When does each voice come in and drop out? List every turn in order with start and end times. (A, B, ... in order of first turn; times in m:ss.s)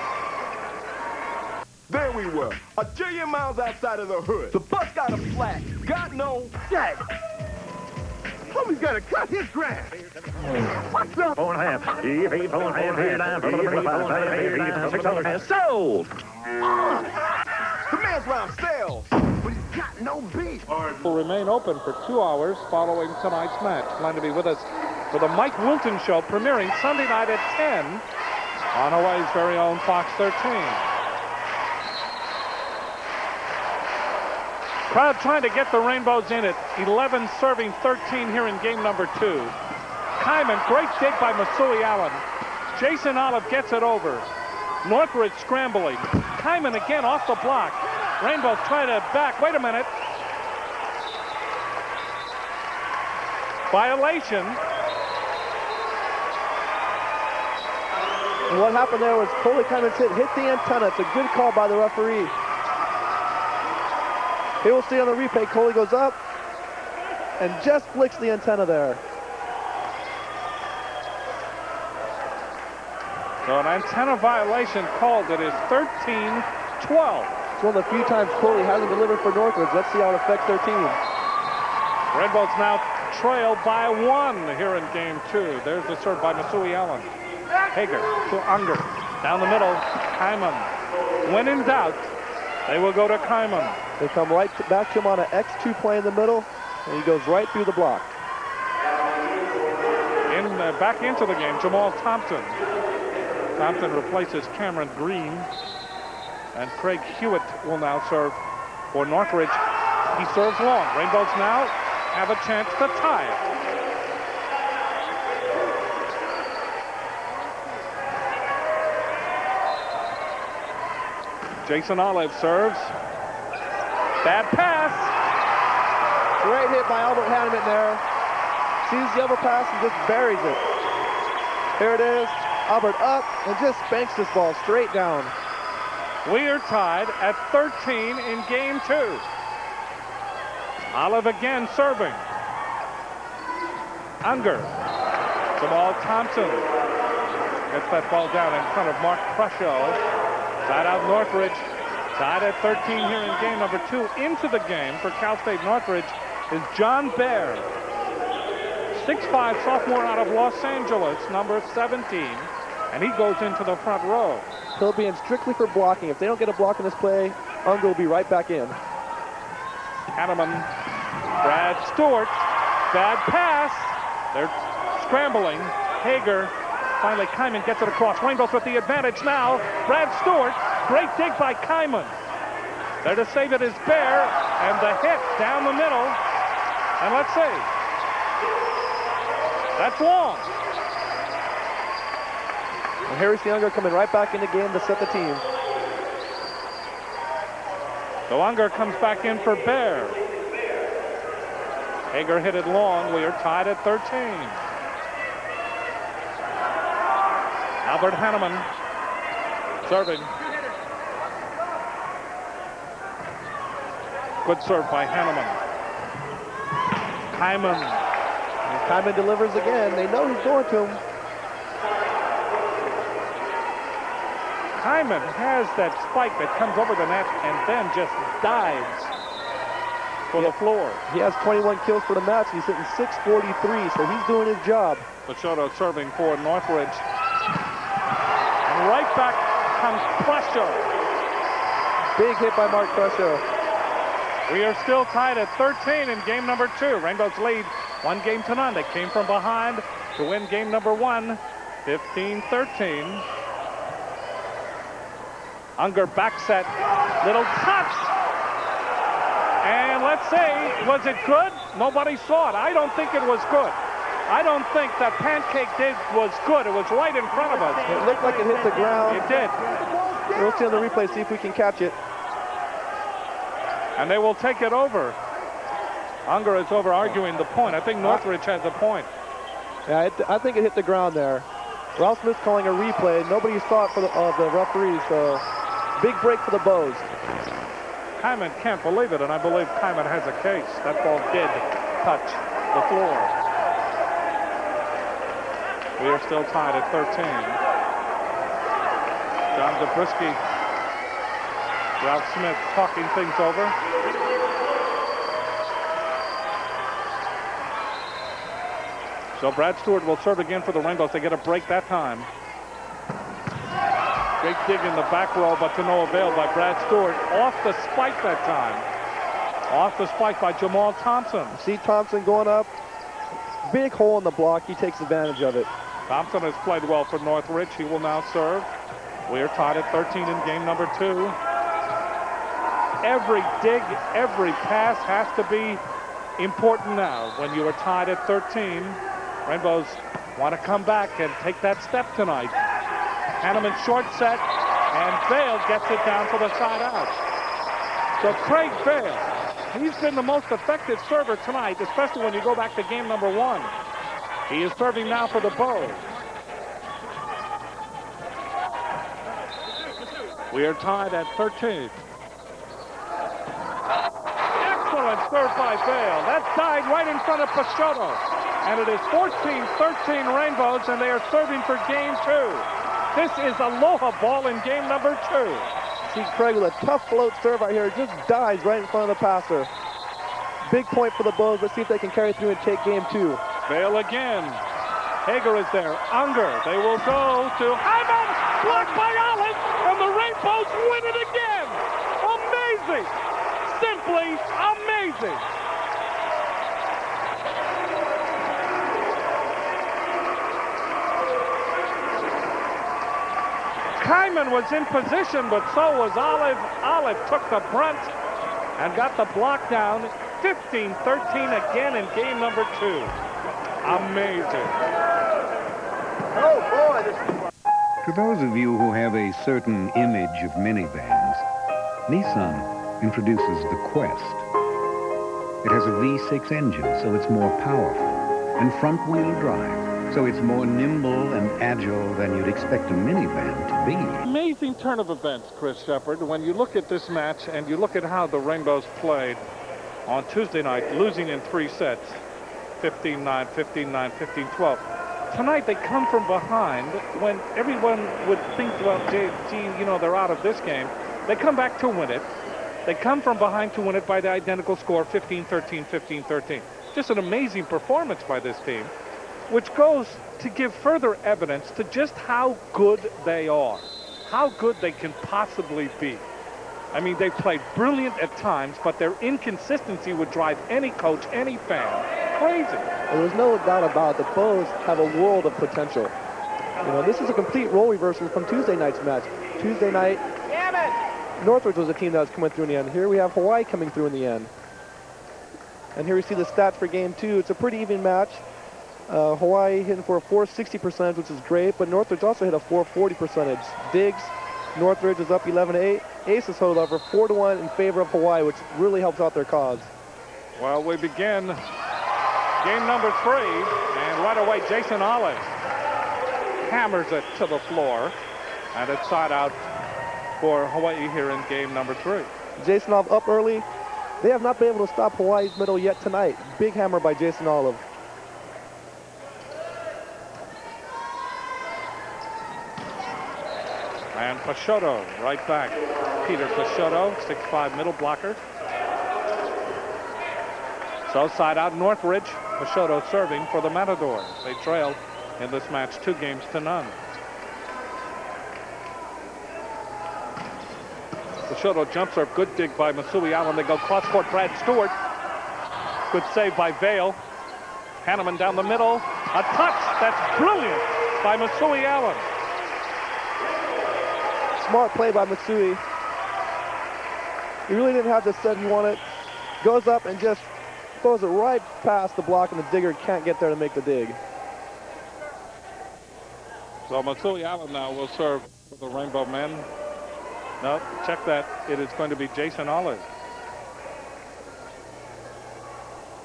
0:01.9-0:07.0 A
0:08.5-0:10.0 A
0:11.0-0:11.2 A
0:11.0-0:16.1 B
0:13.4-0:14.8 A
0:13.5-0:14.2 C
0:17.9-0:20.7 A
0:20.8-0:28.0 C
0:28.7-0:30.8 C
0:34.9-0:39.6 C
0:40.2-0:44.3 C
0:44.8-0:49.9 C
0:53.7-0:54.6 C
0:58.5-1:02.3 D
1:04.6-1:06.2 D
1:07.4-1:09.0 D
1:13.4-1:17.4 C
1:17.6-1:21.0 D
1:22.1-1:27.1 C
1:27.7-1:30.7 C
1:31.2-1:32.1 C
1:32.7-1:33.8 C
1:34.0-1:38.2 D
1:40.3-1:42.6 C
1:43.6-1:45.5 C
1:46.5-1:49.6 C
1:50.1-1:53.5 C
2:01.6-2:03.0 C
2:04.2-2:05.1 C
2:06.4-2:08.0 D
2:08.8-2:10.6 D
2:11.7-2:15.3 D
2:16.2-2:19.2 C
2:20.9-2:22.3 C
2:24.2-2:24.8 C
2:25.6-2:26.7 C
2:27.7-2:30.0 C
2:30.6-2:37.7 C
2:38.9-2:44.5 C
2:44.8-2:48.8 D
2:50.1-2:50.7 C
2:51.4-3:02.2 C
3:03.0-3:06.2 C
3:07.0-3:07.7 C
3:09.8-3:10.5 C
3:13.1-3:15.4 D
3:18.3-3:20.2 C
3:22.1-3:24.6 C
3:27.8-3:28.7 C
3:29.8-3:30.3 C
3:34.4-3:35.6 C
3:37.4-3:38.0 C
3:38.7-3:41.0 D
3:44.8-3:49.1 C
3:50.3-3:51.0 C
3:51.1-3:55.1 D
3:55.3-3:57.1 C
3:58.7-4:00.9 C
4:02.2-4:03.4 D
4:04.5-4:13.3 C
4:15.8-4:18.1 C
4:19.6-4:28.1 C
4:27.9-4:29.3 D
4:29.1-4:29.6 C
4:30.2-4:32.0 D
4:34.0-4:35.2 C
4:36.3-4:39.1 C
4:39.9-4:45.5 D
4:46.0-4:47.1 D
4:48.2-4:53.3 C
4:56.0-4:57.6 C
4:59.5-5:00.4 C
5:02.0-5:03.8 C
5:09.4-5:12.3 C
5:14.4-5:18.9 C
5:19.7-5:21.6 C
5:21.5-5:22.7 D
5:23.6-5:25.7 D
5:26.1-5:28.7 C
5:29.3-5:31.4 C
5:33.0-5:35.8 C
5:36.4-5:42.6 C
5:43.4-5:47.2 C
5:48.2-5:53.7 C
5:54.5-5:56.1 C
6:00.5-6:02.0 C
6:04.6-6:15.7 C
6:16.0-6:19.7 D
6:20.6-6:23.4 D
6:23.7-6:24.6 C
6:25.2-6:33.1 C
6:33.6-6:35.4 C
6:44.0-6:48.1 C
6:48.8-6:53.2 C
6:53.8-6:54.8 C
6:56.4-6:57.4 A
6:58.0-7:01.5 E
7:02.1-7:04.5 E
7:05.6-7:14.2 E
7:14.2-7:19.4 C
7:20.1-7:22.2 C
7:22.8-7:32.3 C
7:32.9-7:38.9 C
7:39.5-7:46.3 C
7:46.9-7:52.9 C
7:53.1-7:56.1 D
7:56.8-8:00.2 D
8:01.4-8:04.5 D
8:06.0-8:08.4 D
8:09.1-8:19.9 D
8:20.6-8:21.6 C
8:22.6-8:25.6 C
8:26.6-8:28.2 C
8:28.7-8:29.6 C
8:30.4-8:32.3 C
8:32.6-8:33.7 D
8:34.2-8:37.8 D
8:44.1-8:48.4 C
8:51.1-8:57.0 C
9:01.5-9:05.0 C
9:06.1-9:07.2 C
9:08.0-9:12.3 C
9:14.6-9:15.8 D
9:17.7-9:19.0 D
9:19.6-9:24.2 D
9:26.9-9:29.7 C
9:30.6-9:33.1 C